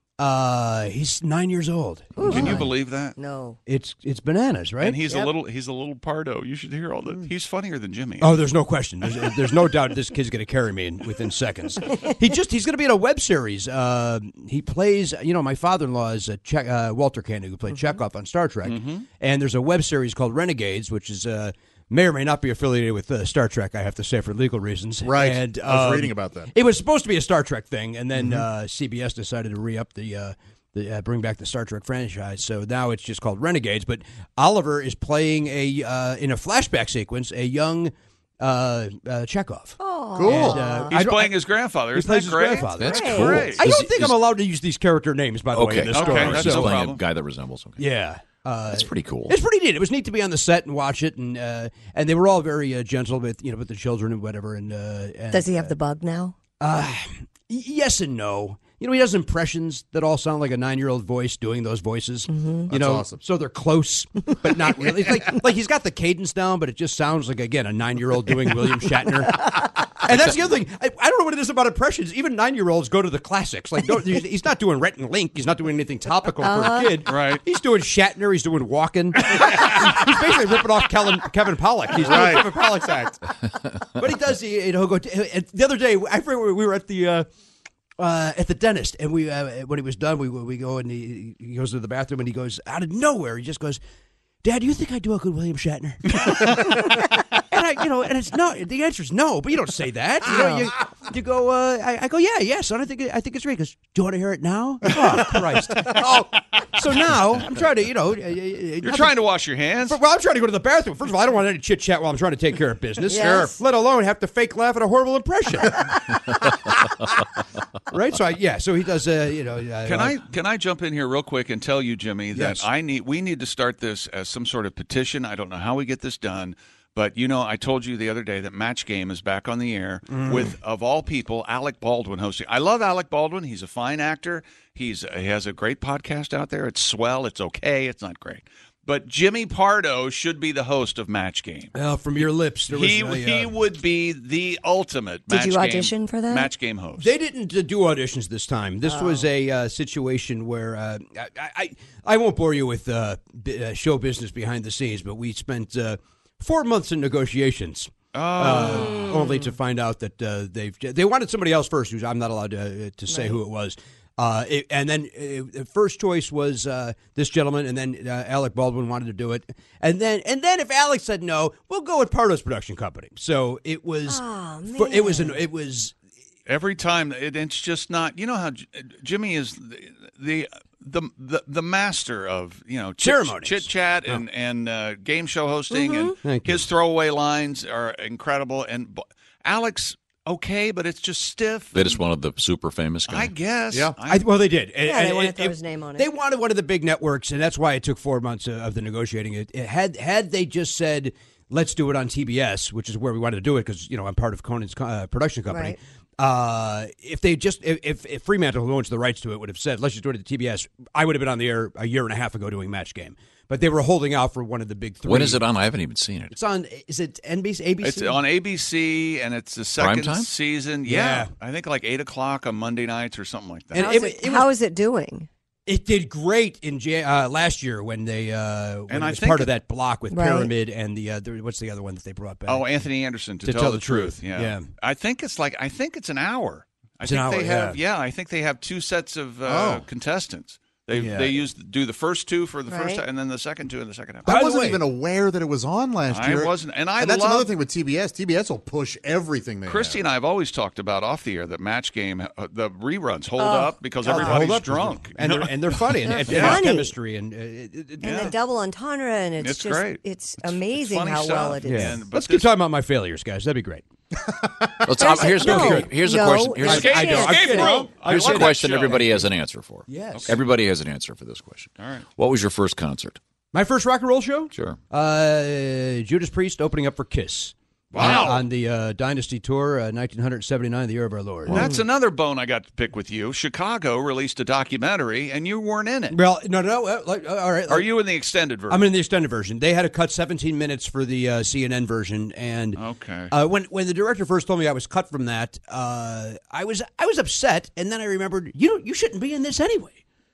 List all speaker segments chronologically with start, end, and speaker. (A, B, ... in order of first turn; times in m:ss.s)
0:00.2-0:02.7 A
0:02.2-0:03.6 B
0:02.2-0:03.2 C
0:03.7-0:05.1 A
0:04.8-0:08.4 C
0:05.1-0:05.3 B
0:08.2-0:46.9 A
0:18.6-0:19.0 C
0:25.0-0:26.5 D
0:28.2-0:28.5 D
0:39.8-0:41.0 B
0:40.2-0:40.7 D
0:40.9-0:43.6 C
0:42.8-0:44.2 E
0:42.8-0:43.5 B
0:45.5-0:47.8 E
0:45.9-0:47.0 C
0:47.8-0:55.7 A
0:48.7-0:49.4 E
0:55.3-0:56.4 B
0:56.6-1:23.1 A
1:02.3-1:02.7 B
1:02.7-1:03.2 D
1:16.4-1:17.0 B
1:17.1-1:17.4 C
1:21.9-1:23.2 D
1:24.0-1:27.3 A
1:28.0-1:33.8 A
1:34.4-1:49.2 A
1:40.3-1:40.7 B
1:44.9-1:46.3 D
1:48.8-1:50.0 C
1:49.8-1:56.5 A
1:53.1-1:53.6 B
1:53.1-1:53.5 D
1:57.9-2:00.2 A
1:59.8-2:27.1 C
2:02.3-2:02.7 A
2:10.1-2:10.5 A
2:21.7-2:23.5 A
2:25.3-2:26.5 B
2:27.0-2:55.9 A
2:28.9-2:29.3 B
2:38.1-2:39.0 C
2:38.6-2:39.5 B
2:43.1-2:43.4 B
2:54.0-2:55.4 B
2:56.5-3:12.0 C
3:03.0-3:04.2 A
3:05.7-3:06.2 B
3:06.2-3:06.7 A
3:11.7-3:13.3 E
3:13.1-3:14.4 C
3:13.7-3:14.0 D
3:14.1-3:35.4 A
3:14.8-3:16.1 B
3:25.5-3:25.8 B
3:35.0-3:36.3 E
3:36.3-3:38.2 A
3:37.8-3:43.8 C
3:39.8-3:40.3 E
3:40.9-3:41.3 A
3:43.7-3:44.5 A
3:43.8-3:45.3 B
3:45.7-3:52.6 A
3:48.9-3:49.6 C
3:50.1-3:50.5 B
3:52.5-4:04.3 C
3:53.4-3:54.7 A
3:57.0-3:57.8 A
3:59.4-3:59.9 D
4:02.7-4:03.0 B
4:04.2-4:04.8 A
4:04.2-4:10.0 D
4:06.1-4:07.5 C
4:09.7-4:16.6 C
4:13.4-4:14.5 B
4:14.0-4:18.4 A
4:16.0-4:17.0 B
4:18.0-4:18.3 C
4:18.0-4:22.0 B
4:19.4-4:22.6 C
4:21.6-4:23.8 A
4:24.4-4:24.7 D
4:24.8-4:27.4 E
4:25.0-4:27.8 B
4:25.1-4:25.9 A
4:26.6-4:29.3 A
4:26.6-4:29.0 C
4:28.0-4:33.2 E
4:29.9-4:30.4 A
4:31.8-4:32.1 C
4:33.5-4:41.8 A
4:34.5-4:34.8 E
4:37.9-4:38.4 C
4:38.0-4:38.3 D
4:41.5-4:46.2 C
4:46.1-4:48.0 A
4:47.7-4:48.8 C
4:48.7-5:00.0 A
4:52.8-4:53.3 C